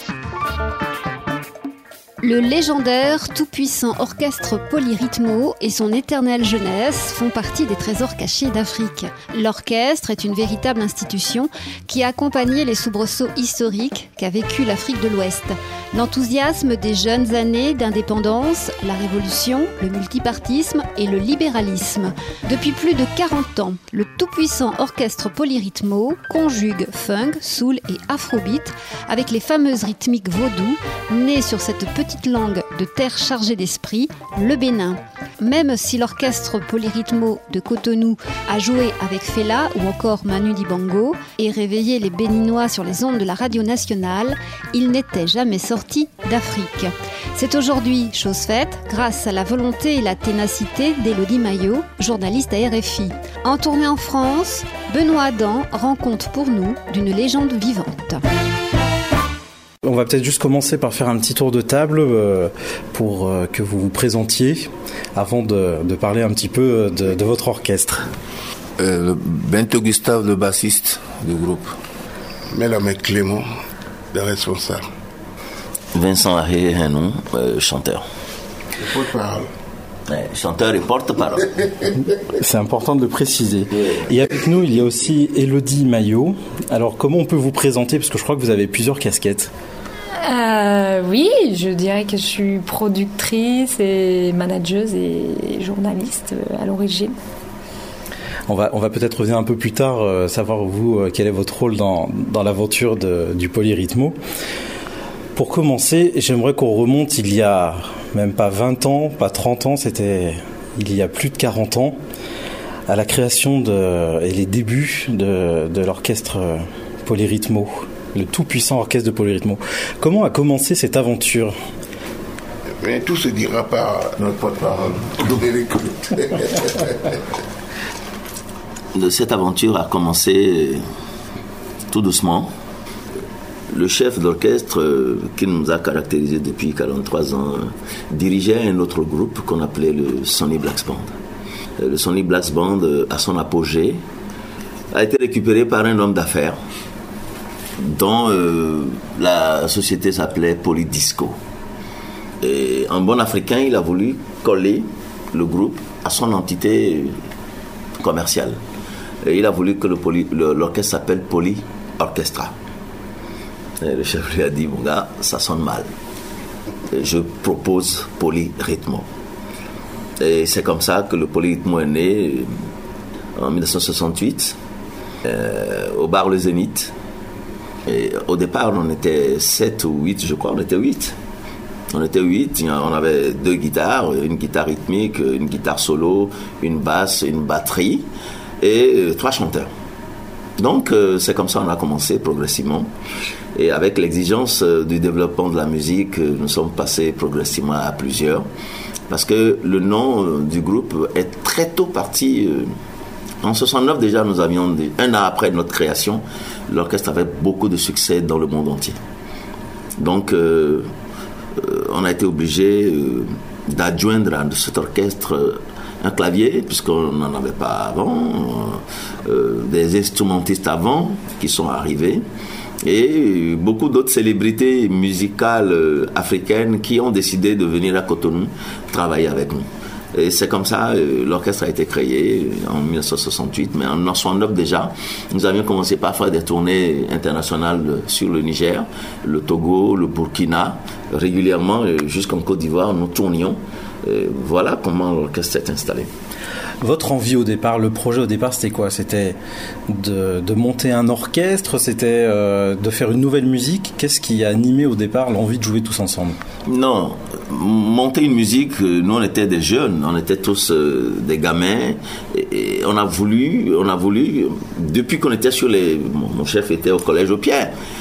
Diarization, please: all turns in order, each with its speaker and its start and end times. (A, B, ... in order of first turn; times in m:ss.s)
0:02.2-0:58.2 A
0:59.8-1:08.1 B
1:08.8-1:11.7 C
1:12.5-1:13.5 D
1:14.1-1:14.8 D
1:15.9-1:18.0 E
1:18.8-1:19.5 D
1:20.1-1:21.9 E
1:22.3-1:29.5 B
1:30.2-1:37.2 F
1:38.5-1:44.2 B
1:45.4-1:52.0 B
1:52.9-2:01.6 B
2:02.8-2:07.2 D
2:08.9-2:10.8 E
2:11.9-2:12.5 E
2:13.7-2:21.1 E
2:21.8-2:24.0 E
2:24.9-2:26.6 E
2:27.8-2:31.4 E
2:32.4-2:37.2 E
2:38.0-2:38.6 E
2:39.2-2:42.5 E
2:43.8-2:45.9 E
2:46.9-2:49.1 E
2:50.2-2:52.5 E
2:53.4-2:54.6 E
2:55.2-2:56.9 E
2:57.9-3:01.2 E
3:01.9-3:08.0 E
3:08.6-3:09.7 E
3:10.6-3:12.9 E
3:13.6-3:18.5 E
3:19.1-3:22.7 E
3:23.4-3:29.0 E
3:30.0-3:30.9 E
3:31.6-3:42.2 E
3:42.8-4:06.1 E
4:06.8-4:09.4 B
4:09.9-4:16.4 B
4:16.7-4:27.7 E